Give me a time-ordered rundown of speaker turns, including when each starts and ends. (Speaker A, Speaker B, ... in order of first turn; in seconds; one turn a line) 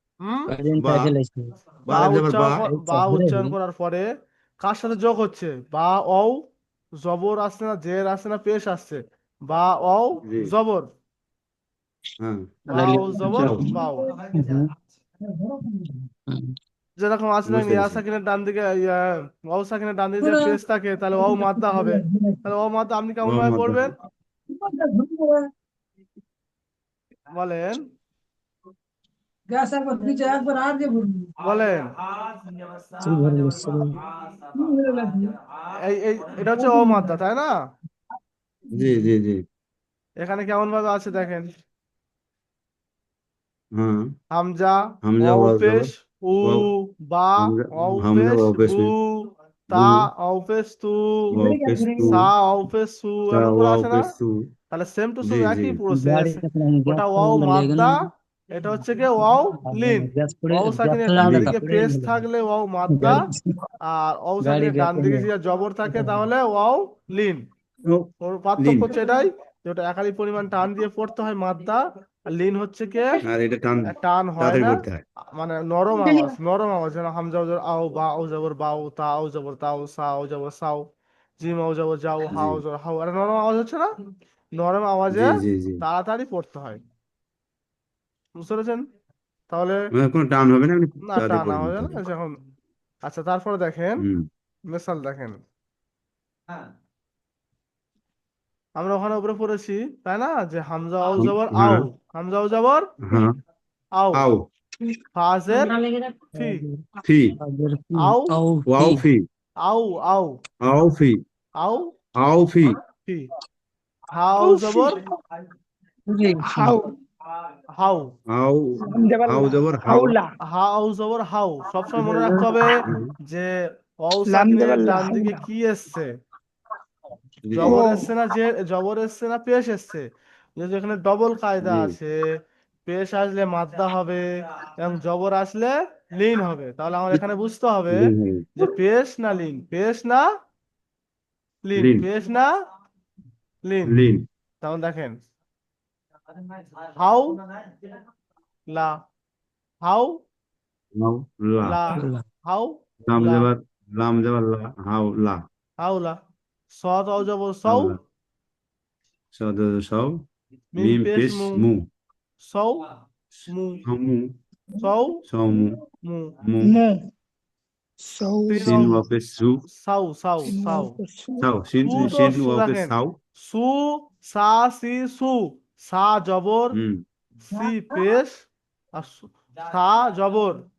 Speaker A: 0.2-0.5
Speaker B: 0.5-1.5
Speaker C: 0.8-1.1
Speaker C: 1.9-2.6
Speaker A: 1.9-4.1
Speaker B: 2.8-3.5
Speaker A: 4.6-6.4
Speaker A: 7.0-10.9
Speaker C: 10.2-10.5
Speaker C: 12.2-12.6
Speaker A: 12.7-14.2
Speaker B: 12.7-13.7
Speaker C: 13.3-13.7
Speaker B: 14.3-14.7
Speaker D: 15.2-16.0
Speaker B: 16.3-16.5
Speaker A: 17.0-23.9
Speaker C: 17.5-18.0
Speaker D: 20.2-20.6
Speaker D: 21.1-22.4
Speaker C: 23.2-23.9
Speaker D: 24.5-25.5
Speaker A: 27.3-27.8
Speaker D: 29.5-31.3
Speaker A: 31.4-31.9
Speaker B: 33.0-34.0
Speaker D: 34.5-35.4
Speaker A: 35.8-37.5
Speaker D: 36.5-37.1
Speaker C: 38.7-39.4
Speaker A: 40.2-41.5
Speaker C: 43.8-44.1
Speaker A: 44.3-51.3
Speaker C: 45.0-45.9
Speaker C: 47.4-48.9
Speaker C: 49.7-50.1
Speaker C: 51.3-52.2
Speaker D: 51.4-52.2
Speaker A: 52.0-54.1
Speaker C: 53.3-54.5
Speaker A: 54.7-57.9
Speaker C: 55.2-55.8
Speaker B: 55.9-58.0
Speaker A: 58.5-63.2
Speaker B: 59.7-62.1
Speaker C: 61.2-61.5
Speaker B: 62.9-63.6
Speaker A: 63.9-67.4
Speaker B: 64.4-65.3
Speaker B: 65.9-66.2
Speaker A: 68.2-73.2
Speaker C: 68.6-69.0
Speaker C: 73.2-75.0
Speaker A: 73.9-74.8
Speaker A: 75.3-80.9
Speaker D: 76.0-76.3
Speaker A: 81.4-83.9
Speaker C: 82.3-82.6
Speaker A: 84.6-86.8
Speaker C: 85.1-85.8
Speaker A: 88.4-88.8
Speaker A: 89.5-89.9
Speaker C: 89.9-92.0
Speaker A: 91.0-92.4
Speaker A: 93.0-94.0
Speaker C: 94.0-94.3
Speaker A: 94.7-95.4
Speaker A: 98.8-102.9
Speaker C: 101.2-101.8
Speaker C: 103.1-103.4
Speaker A: 104.0-104.2
Speaker C: 104.2-104.5
Speaker A: 105.2-105.7
Speaker D: 105.5-106.3
Speaker B: 106.3-106.8
Speaker A: 106.4-106.6
Speaker C: 107.0-107.4
Speaker B: 107.4-109.0
Speaker A: 108.0-108.3
Speaker C: 108.7-109.3
Speaker A: 109.6-110.3
Speaker C: 110.6-111.2
Speaker A: 111.6-111.9
Speaker C: 112.2-112.8
Speaker A: 114.1-115.0
Speaker E: 114.4-115.0
Speaker B: 116.1-116.8
Speaker E: 116.4-117.0
Speaker A: 117.8-118.1
Speaker C: 118.3-120.2
Speaker E: 118.8-120.3
Speaker A: 120.5-126.1
Speaker B: 121.9-122.8
Speaker C: 122.9-123.1
Speaker E: 124.3-125.4
Speaker C: 127.5-127.8
Speaker A: 127.5-132.2
Speaker E: 127.6-128.1
Speaker C: 131.6-131.9
Speaker A: 132.9-134.2
Speaker A: 134.8-140.3
Speaker C: 137.9-138.5
Speaker A: 141.6-142.5
Speaker C: 141.8-142.1
Speaker A: 143.7-144.0
Speaker C: 143.9-144.2
Speaker A: 144.6-145.2
Speaker A: 146.9-147.4
Speaker A: 149.8-150.2
Speaker C: 150.9-151.8
Speaker A: 151.6-153.5
Speaker B: 151.9-152.2
Speaker C: 153.1-155.4
Speaker A: 155.8-156.2
Speaker A: 156.7-158.0
Speaker C: 157.7-158.0
Speaker C: 159.3-160.3
Speaker A: 160.8-161.6
Speaker C: 160.8-161.9
Speaker A: 162.4-162.8
Speaker A: 163.5-163.8
Speaker C: 163.9-164.3
Speaker A: 164.8-165.2
Speaker C: 165.2-165.8
Speaker A: 166.0-166.3
Speaker C: 166.4-166.8
Speaker E: 166.6-167.1
Speaker E: 168.0-169.0
Speaker A: 168.5-169.0
Speaker C: 168.6-169.6
Speaker A: 169.7-171.0
Speaker E: 170.4-172.2
Speaker C: 171.4-173.2
Speaker A: 171.8-176.8
Speaker C: 176.7-177.0
Speaker A: 177.5-180.6
Speaker D: 177.5-178.2